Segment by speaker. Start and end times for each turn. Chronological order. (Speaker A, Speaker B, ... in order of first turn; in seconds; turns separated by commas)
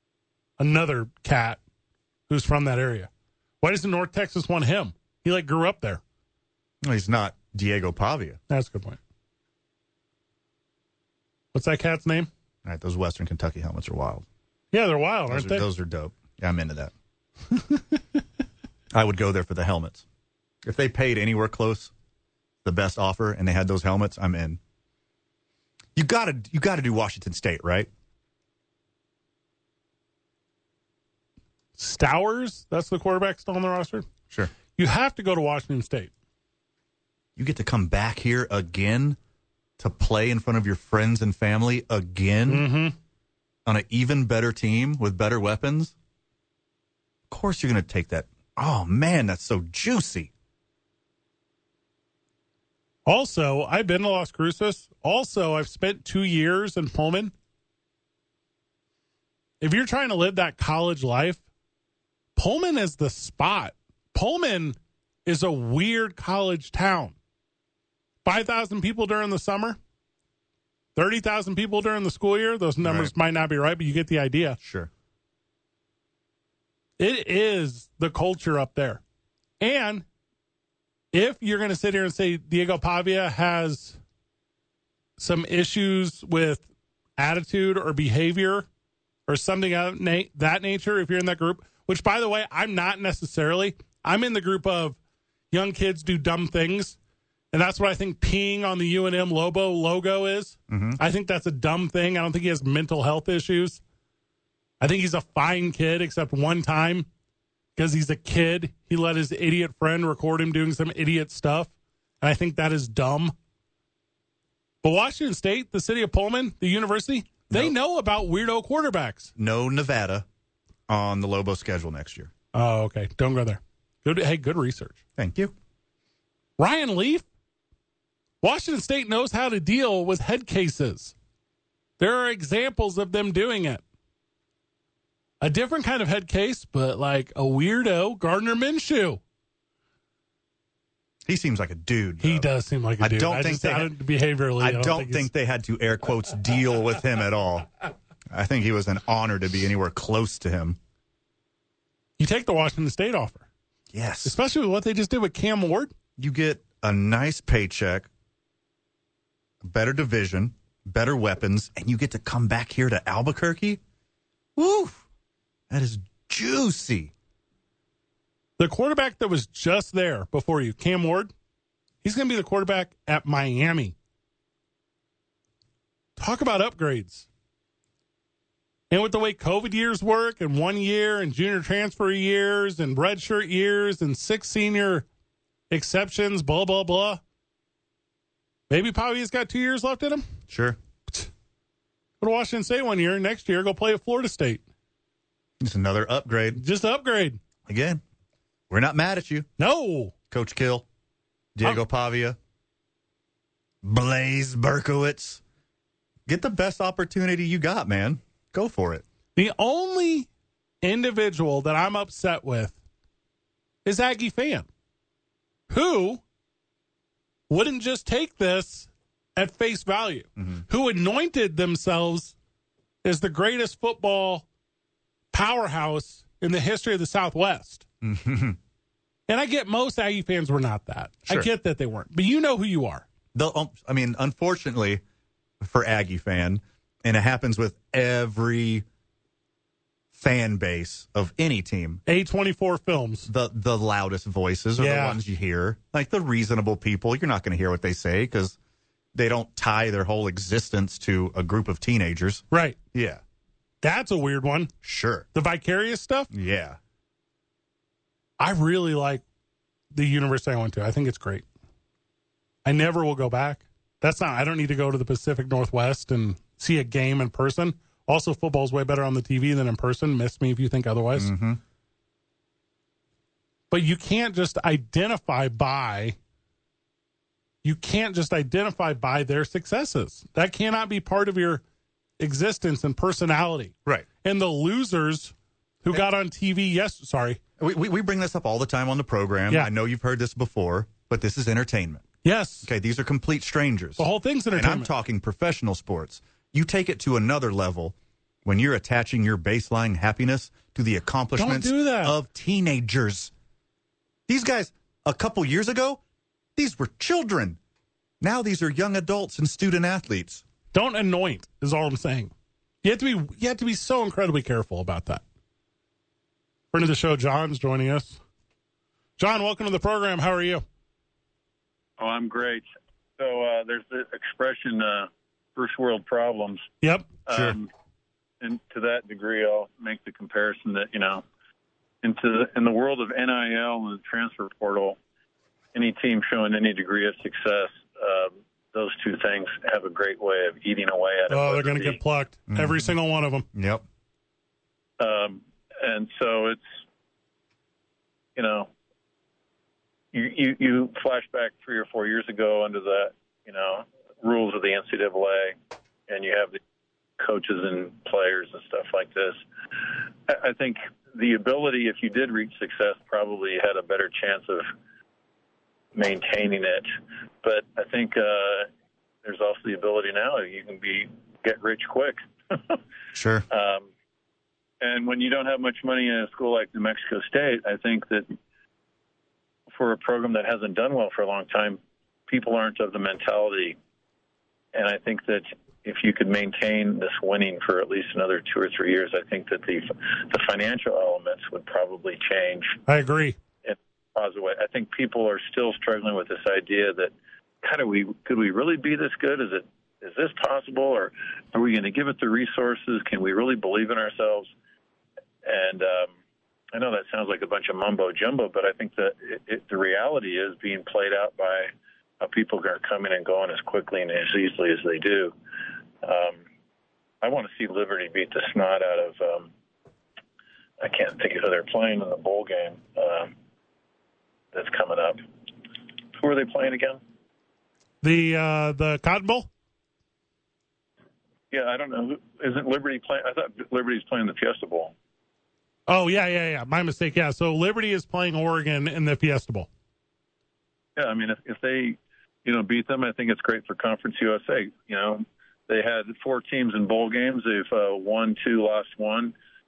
Speaker A: 0.6-1.6, Speaker A: 2.3-3.1, Speaker A: 3.6-6.0, Speaker B: 6.8-8.4, Speaker A: 8.5-9.0, Speaker A: 11.5-12.3, Speaker B: 12.6-14.2, Speaker A: 14.7-15.7, Speaker B: 15.3-16.9, Speaker B: 18.9-20.0, Speaker B: 20.6-21.9, Speaker B: 22.6-24.6, Speaker B: 25.9-27.9, Speaker A: 31.8-34.0, Speaker A: 34.8-36.1, Speaker B: 37.4-39.2, Speaker B: 39.8-42.7, Speaker A: 42.5-43.0, Speaker B: 43.7-45.9, Speaker B: 47.3-50.3, Speaker A: 53.0-57.3, Speaker A: 59.6-61.4, Speaker A: 62.4-67.1, Speaker A: 68.2-69.8, Speaker A: 71.0-74.6, Speaker B: 72.8-73.1, Speaker B: 74.6-74.9, Speaker A: 77.0-79.0, Speaker A: 79.6-80.0, Speaker A: 81.1-84.0, Speaker A: 85.2-86.6, Speaker A: 87.2-88.7, Speaker A: 89.3-95.0, Speaker A: 95.5-97.0, Speaker A: 97.5-103.8, Speaker B: 100.7-101.0, Speaker A: 104.8-107.1, Speaker A: 107.8-113.3, Speaker A: 114.8-119.3, Speaker B: 119.4-120.3, Speaker B: 120.9-122.3, Speaker A: 122.5-125.0, Speaker B: 125.2-125.5, Speaker A: 126.6-127.2, Speaker A: 128.4-131.1, Speaker A: 132.0-133.8, Speaker A: 135.4-139.2, Speaker B: 141.3-143.9, Speaker A: 142.2-145.3, Speaker B: 144.6-147.7, Speaker B: 148.3-150.8, Speaker A: 152.2-153.4, Speaker B: 153.9-154.4, Speaker A: 154.2-155.9, Speaker B: 156.2-158.1, Speaker B: 159.6-163.8, Speaker B: 164.6-165.0, Speaker B: 165.7-167.1, Speaker A: 168.6-171.3, Speaker A: 172.0-173.9, Speaker A: 176.2-177.3, Speaker A: 178.9-185.1, Speaker A: 185.7-187.2, Speaker A: 188.7-190.2, Speaker B: 190.5-190.8, Speaker A: 192.2-194.6, Speaker B: 195.6-196.6, Speaker A: 196.6-197.4, Speaker B: 197.7-198.0, Speaker B: 198.7-199.5, Speaker A: 199.6-200.1, Speaker B: 200.3-200.9, Speaker B: 201.6-202.4, Speaker B: 203.8-205.4, Speaker B: 206.3-209.0, Speaker A: 209.3-210.3, Speaker A: 210.8-212.8, Speaker A: 213.8-214.7, Speaker A: 215.7-216.2, Speaker A: 217.5-222.3, Speaker B: 220.4-220.6, Speaker A: 223.0-224.4, Speaker A: 225.3-227.8, Speaker B: 228.0-228.6, Speaker A: 229.3-233.1, Speaker B: 233.3-235.0, Speaker B: 235.6-238.8, Speaker B: 240.1-242.0, Speaker A: 242.1-243.3, Speaker B: 243.3-248.6, Speaker A: 244.8-245.2, Speaker B: 249.1-253.2, Speaker A: 252.5-252.8, Speaker A: 253.8-254.7, Speaker B: 254.8-255.3, Speaker A: 255.3-256.3, Speaker B: 256.3-256.8, Speaker A: 258.4-259.2, Speaker A: 259.9-261.4, Speaker A: 262.6-271.3, Speaker B: 271.2-271.6, Speaker A: 273.7-276.2, Speaker A: 277.6-281.6, Speaker A: 282.2-287.4, Speaker B: 287.6-292.1, Speaker A: 292.2-292.7, Speaker B: 292.6-303.3, Speaker A: 294.0-294.9, Speaker A: 301.4-302.2, Speaker B: 304.3-306.0, Speaker B: 306.6-307.6, Speaker B: 308.2-310.4, Speaker A: 310.7-312.3, Speaker A: 312.8-315.2, Speaker A: 316.7-318.2, Speaker A: 319.2-320.6, Speaker C: 322.0-322.7, Speaker C: 323.2-326.6, Speaker A: 326.8-327.1, Speaker C: 327.3-327.7, Speaker B: 327.3-327.6, Speaker C: 328.4-331.2, Speaker C: 332.0-335.0, Speaker C: 335.7-342.0, Speaker A: 341.3-343.4, Speaker B: 342.5-342.9, Speaker B: 343.5-343.8, Speaker C: 345.0-346.7, Speaker C: 348.4-348.7, Speaker C: 350.1-355.6, Speaker C: 356.1-356.6, Speaker C: 357.2-359.4, Speaker C: 360.3-364.7, Speaker C: 365.9-366.9, Speaker C: 367.4-368.7, Speaker C: 369.2-372.8, Speaker B: 373.1-373.4, Speaker C: 373.5-373.9, Speaker C: 374.8-378.3, Speaker C: 379.7-383.8, Speaker C: 384.7-392.8, Speaker A: 392.9-393.4, Speaker C: 393.6-404.5, Speaker C: 405.4-406.1, Speaker C: 406.7-415.3, Speaker C: 416.0-416.4, Speaker C: 417.2-419.5, Speaker C: 420.8-423.3, Speaker C: 424.5-425.2, Speaker C: 426.1-427.0, Speaker A: 428.0-429.5, Speaker C: 431.5-434.9, Speaker A: 435.9-439.7, Speaker C: 440.9-449.3